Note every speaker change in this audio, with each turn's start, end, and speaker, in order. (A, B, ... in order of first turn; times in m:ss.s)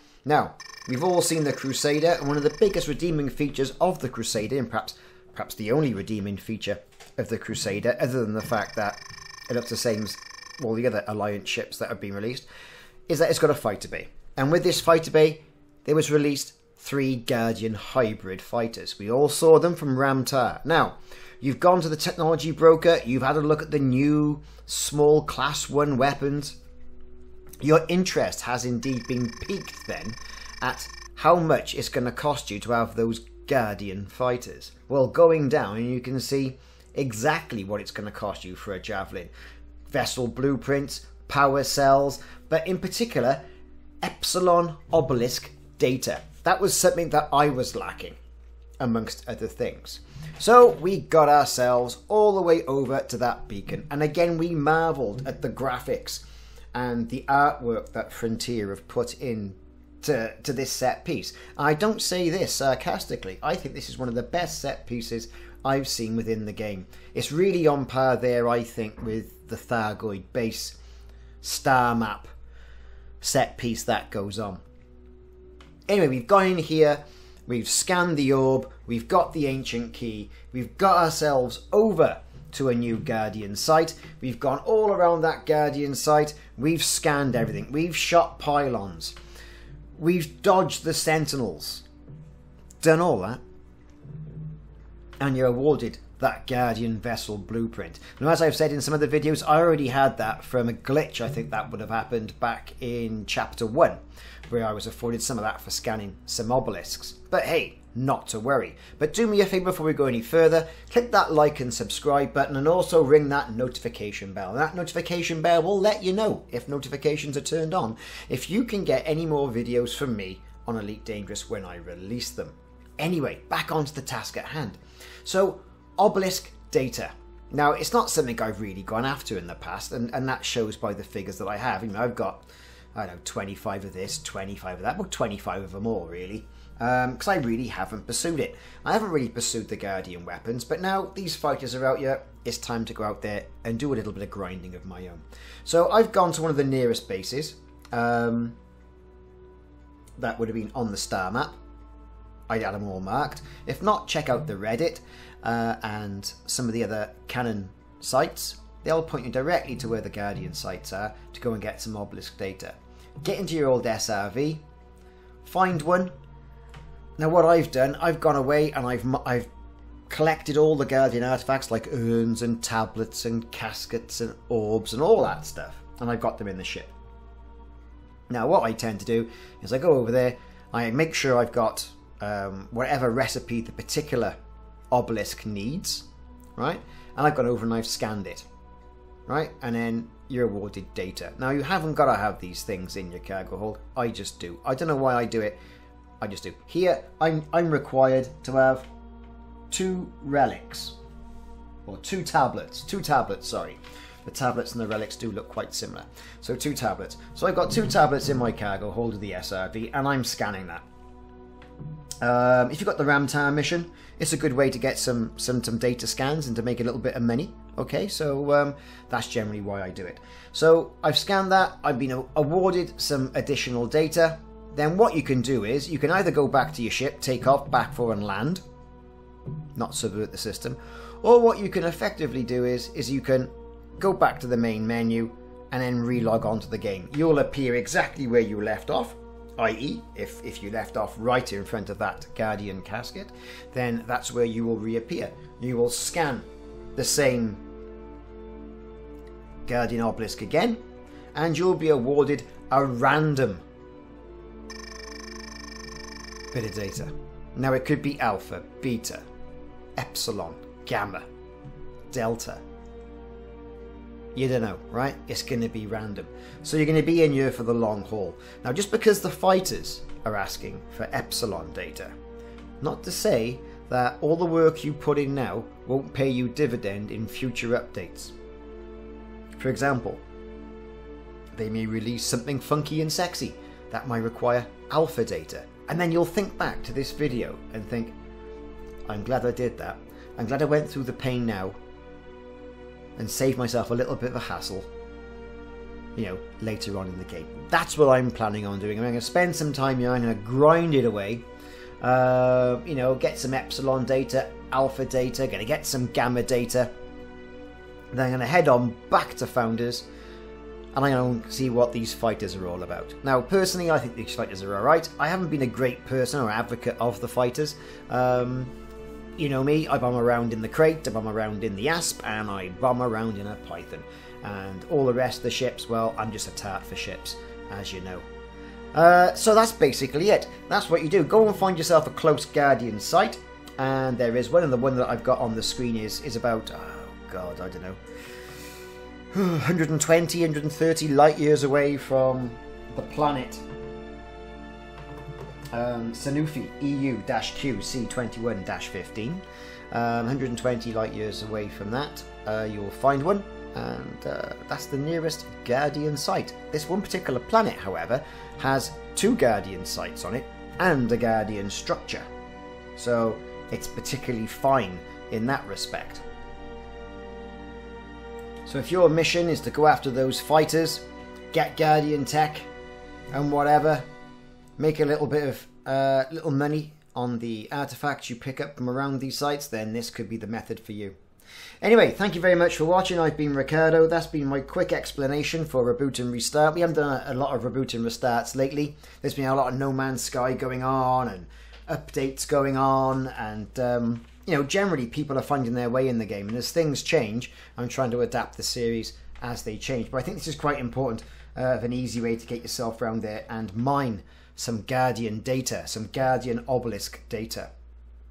0:00.2-0:12.5 A
0:13.1-0:26.6 A
0:27.6-0:39.3 A
0:39.9-0:43.4 A
0:44.0-0:48.2 A
0:48.8-0:56.2 A
0:56.7-1:10.8 A
1:11.4-1:12.3 A
1:13.2-1:14.6 A
1:15.9-1:29.2 A
1:30.0-1:31.8 A
1:32.8-1:33.4 A
1:35.2-2:28.6 A
2:30.2-2:31.6 A
2:32.5-2:44.6 A
2:45.4-2:46.1 A
2:47.2-2:49.5 A
2:50.1-2:56.9 A
2:58.3-3:04.4 A
3:04.9-3:08.5 A
3:09.3-3:15.6 A
3:16.2-3:18.9 A
3:19.7-3:21.0 A
3:21.9-3:30.8 A
3:32.2-3:48.6 A
3:49.8-4:07.6 A
4:09.7-4:10.8 A
4:11.3-4:13.6 A
4:16.5-4:19.2 A
4:20.0-4:21.3 A
4:22.1-4:22.6 A
4:24.4-4:32.1 A
4:32.8-4:38.3 A
4:39.6-4:40.2 A
4:41.5-4:48.2 A
4:49.1-4:51.8 A
4:53.2-4:54.9 A
4:56.2-5:01.4 A
5:02.0-5:06.9 A
5:08.1-5:10.1 A
5:10.9-5:18.7 A
5:19.4-5:28.2 A
5:28.9-5:38.0 A
5:39.3-5:43.6 A
5:45.7-6:02.3 A
6:03.0-6:06.2 A
6:08.6-6:12.7 A
6:13.3-6:14.1 A
6:14.8-6:21.2 A
6:21.8-6:47.7 A